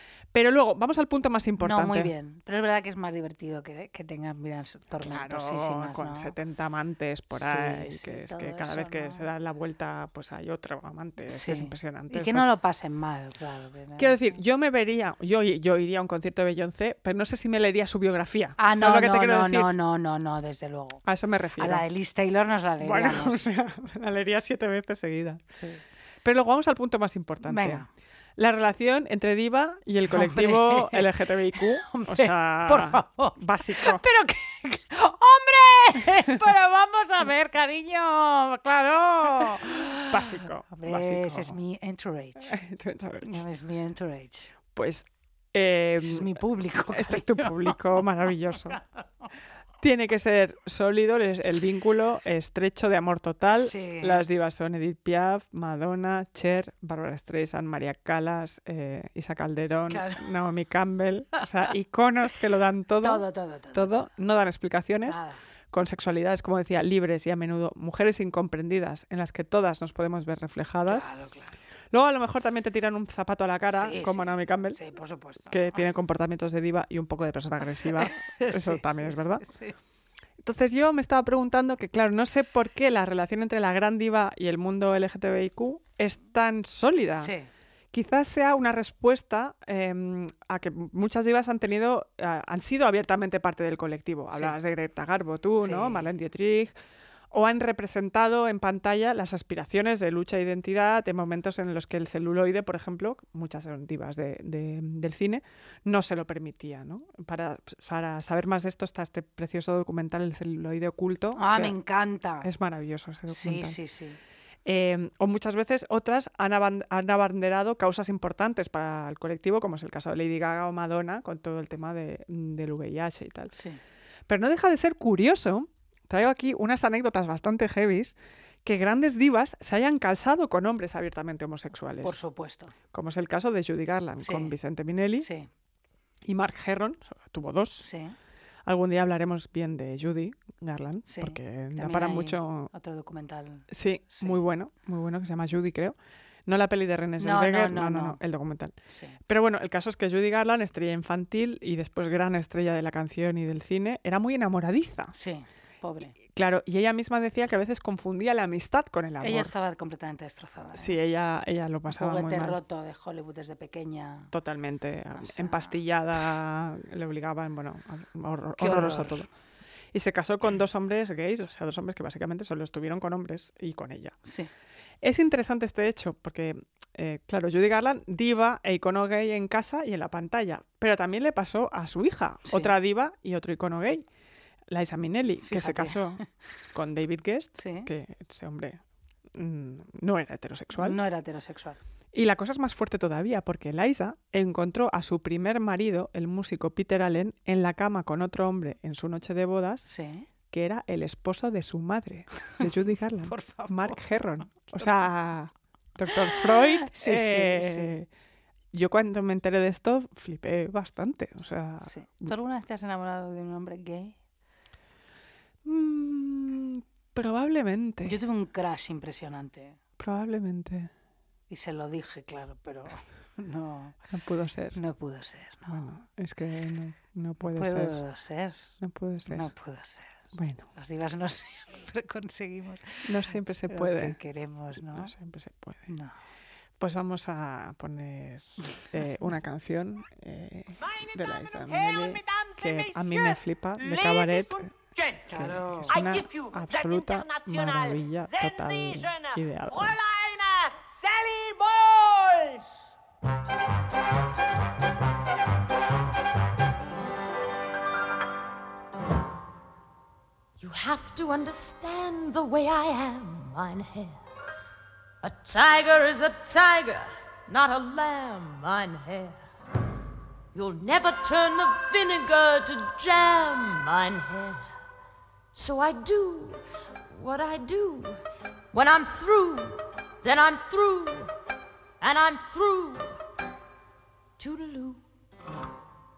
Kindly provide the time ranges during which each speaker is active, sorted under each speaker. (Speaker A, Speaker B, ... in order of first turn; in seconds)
Speaker A: 0.3-2.1, 5.0-12.5, 14.0-19.7, 21.1-21.8, 22.8-25.4, 26.2-27.9, 28.4-34.0, 39.4-41.5, 42.4-43.4, 44.7-46.4, 46.9-48.8, 49.8-71.1, 71.9-74.8, 75.5-79.5, 80.4-87.3, 87.9-96.7, 97.3-111.7, 112.4-113.8, 114.6-123.5, 124.3-132.2, 132.9-135.3, 136.3-137.9, 138.7-142.7, 143.7-148.7, 149.3-155.1, 156.2-159.5, 160.7-162.6, 164.3-169.3, 169.9-174.2, 175.0-184.1, 184.7-186.2, 186.7-188.8, 189.3-191.0, 192.1-199.9, 200.5-208.1, 208.7-212.3, 215.6-218.2, 220.0-220.9, 224.1-224.8, 225.7-228.0, 228.8-229.5, 230.3-230.7, 233.1-234.2, 234.8-235.9, 236.8-244.8, 245.3-250.5
Speaker B: 1.6-6.3, 7.3-9.3, 11.3-14.4, 18.6-21.0, 21.6-23.4, 25.5-25.8, 27.4-27.9, 30.1-42.5, 43.2-44.5, 46.0-49.3, 53.5-54.2, 59.9-60.2, 63.0-64.1, 65.0-65.4, 70.9-71.5, 73.7-75.9, 77.8-79.8, 87.2-87.5, 95.6-96.1, 111.4-112.5, 113.3-114.2, 123.5-123.8, 132.0-132.7, 134.2-134.5, 135.2-135.5, 137.8-138.1, 141.1-144.4, 147.2-148.2, 148.9-149.2, 155.1-156.1, 159.2-160.9, 161.9-164.3, 165.2-165.8, 168.6-169.2, 174.2-174.5, 182.4-182.7, 185.4-186.0, 187.6-187.9, 190.8-191.8, 199.8-200.3, 203.3-204.0, 204.5-204.9, 206.1-207.9, 211.8-214.1, 218.1-219.8, 221.5-223.9, 224.7-225.8, 227.4-228.7, 229.3-230.1, 230.8-233.1, 233.7-235.1, 235.9-236.1, 238.6-239.2, 245.3-246.1
Speaker C: 260.6-264.2, 265.2-269.4, 270.5-274.7, 275.5-278.2, 278.7-281.3, 282.0-283.2, 284.4-285.0